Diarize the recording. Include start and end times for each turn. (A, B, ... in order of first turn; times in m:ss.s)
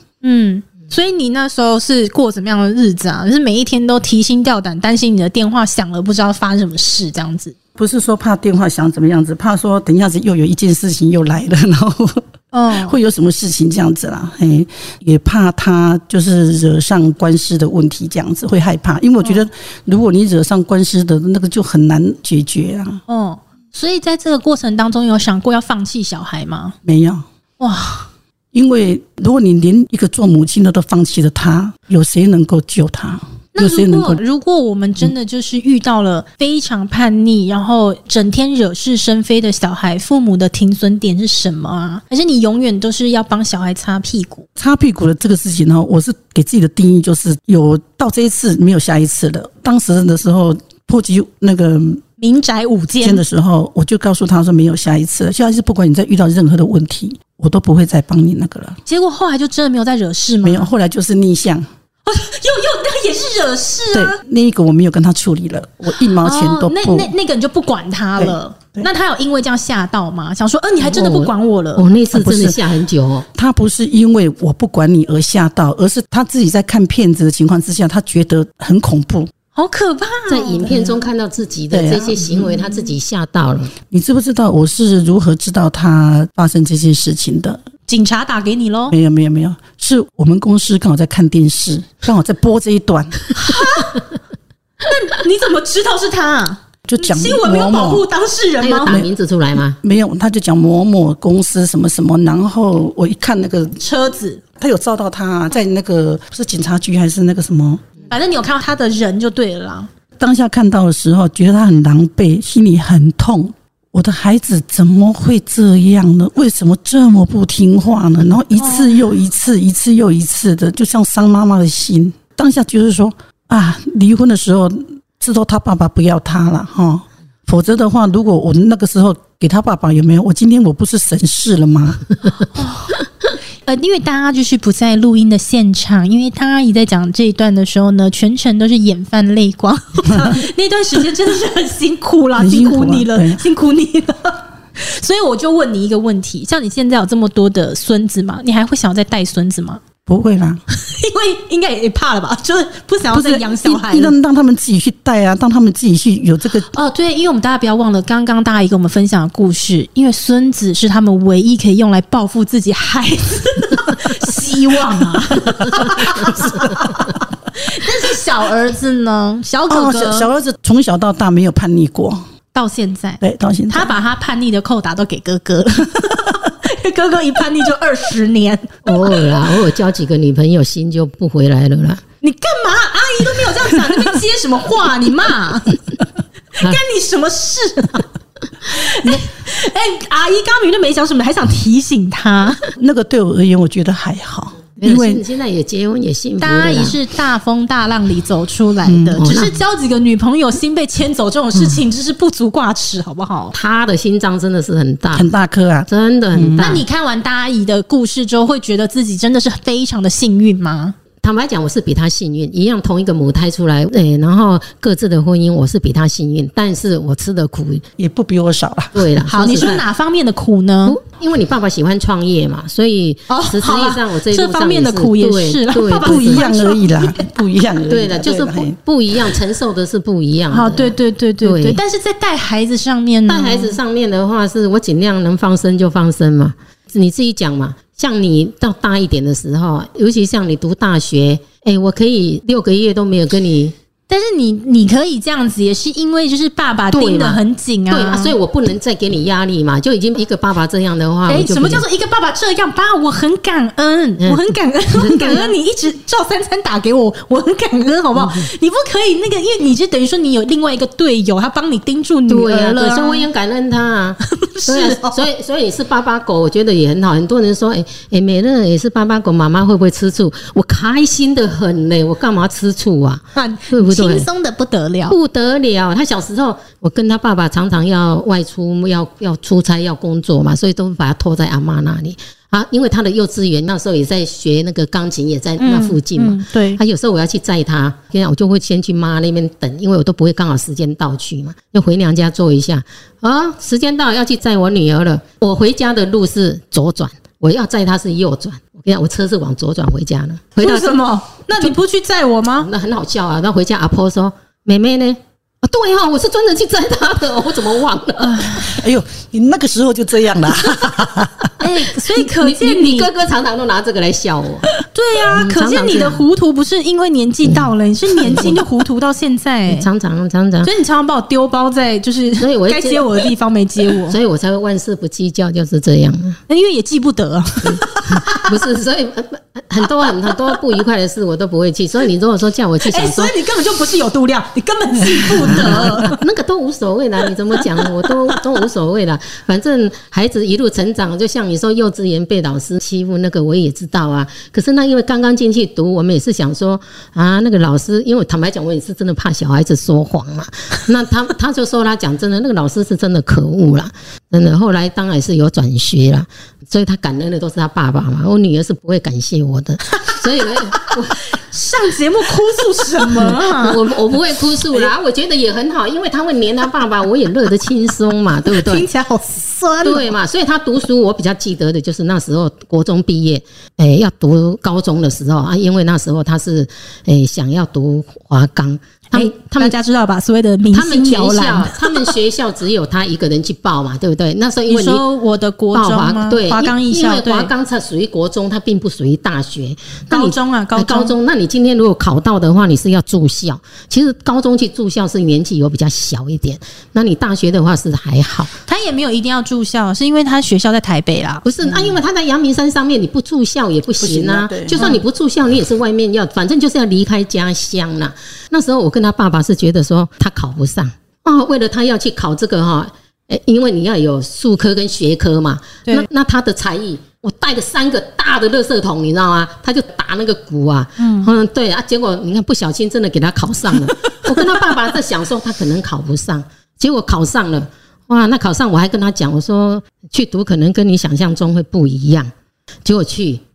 0:00.2-0:07.6 A
0:07.8-0:23.0 B
0:12.5-0:13.0 A
0:23.1-0:26.8 A
0:26.8-0:27.2 B
0:27.6-0:28.1 A
0:28.5-0:34.2 B
0:33.5-0:44.5 A
0:44.6-0:52.0 B
0:52.2-0:53.2 A
0:53.0-0:58.8 B
0:58.8-1:00.7 A
1:00.4-1:01.7 B
1:02.0-1:04.2 A
1:03.9-1:07.1 B
1:06.1-1:11.9 A
1:08.2-1:08.9 B
1:10.8-1:13.3 C
1:12.1-1:12.6 B
1:13.3-1:19.3 B
1:19.6-1:20.7 A
1:20.3-1:23.8 C
1:20.7-1:21.0 B
1:21.7-1:22.6 B
1:23.9-1:27.6 B
1:27.9-1:29.0 A
1:28.9-1:33.3 B
1:33.4-1:34.0 A
1:34.8-1:39.0 A
1:36.9-1:38.0 B
1:38.6-1:39.8 C
1:38.9-1:43.8 B
1:43.8-1:44.4 A
1:44.6-1:47.8 B
1:48.1-1:49.9 A
1:50.2-2:12.0 B
1:58.6-1:58.9 A
2:12.6-2:13.0 A
2:13.6-2:29.8 A
2:22.4-2:23.4 B
2:30.1-2:30.6 B
2:30.7-2:34.2 A
2:33.1-2:36.7 B
2:36.7-2:50.3 A
2:49.7-2:52.2 B
2:52.5-2:59.1 A
2:53.2-2:53.9 B
2:58.8-3:02.0 C
3:02.2-3:05.8 A
3:06.5-3:08.1 A
3:08.6-3:12.6 A
3:12.8-3:15.2 B
3:14.8-3:17.0 C
3:16.4-3:23.6 A
3:18.8-3:19.2 B
3:19.2-3:19.6 C
3:23.5-3:25.3 C
3:25.1-3:26.8 B
3:25.9-3:26.8 C
3:26.6-3:31.0 A
3:31.2-3:37.8 C
3:38.0-3:39.8 B
3:38.9-3:39.8 C
3:39.2-3:41.0 A
3:40.9-3:46.5 C
3:43.3-3:47.3 A
3:46.0-3:48.8 B
3:47.9-3:51.8 C
3:50.5-3:53.8 A
3:53.3-4:03.7 C
4:04.1-4:08.4 A
4:06.9-4:11.9 C
4:11.3-4:23.3 A
4:14.2-4:15.6 C
4:18.2-4:18.5 C
4:22.3-4:34.3 C
4:24.2-4:25.2 A
4:33.4-4:35.2 A
4:35.1-5:01.0 C
4:45.6-4:46.8 A
5:00.6-5:02.7 A
5:02.6-5:08.8 C
5:08.3-5:08.6 A
5:08.6-5:11.5 B
5:11.6-5:13.1 A
5:12.0-5:14.7 C
5:14.9-5:19.9 A
5:15.3-5:16.2 C
5:17.4-5:18.6 C
5:19.7-5:20.7 C
5:20.6-5:24.2 A
5:22.4-5:23.3 C
5:24.0-5:26.4 C
5:26.5-5:28.4 A
5:27.6-5:33.3 C
5:32.8-5:36.2 A
5:35.4-6:01.3 C
5:38.0-5:38.3 A
6:00.0-6:03.9 A
6:03.0-6:08.9 C
6:08.5-6:10.1 A
6:09.8-6:19.8 C
6:19.1-6:22.2 A
6:20.7-6:25.0 C
6:24.7-6:27.5 A
6:25.7-6:38.5 C
6:30.1-6:31.2 A
6:38.7-6:41.5 A
6:41.4-7:12.3 C
6:44.0-6:45.0 B
7:01.0-7:01.3 A
7:04.0-7:04.4 A
7:12.8-7:13.4 C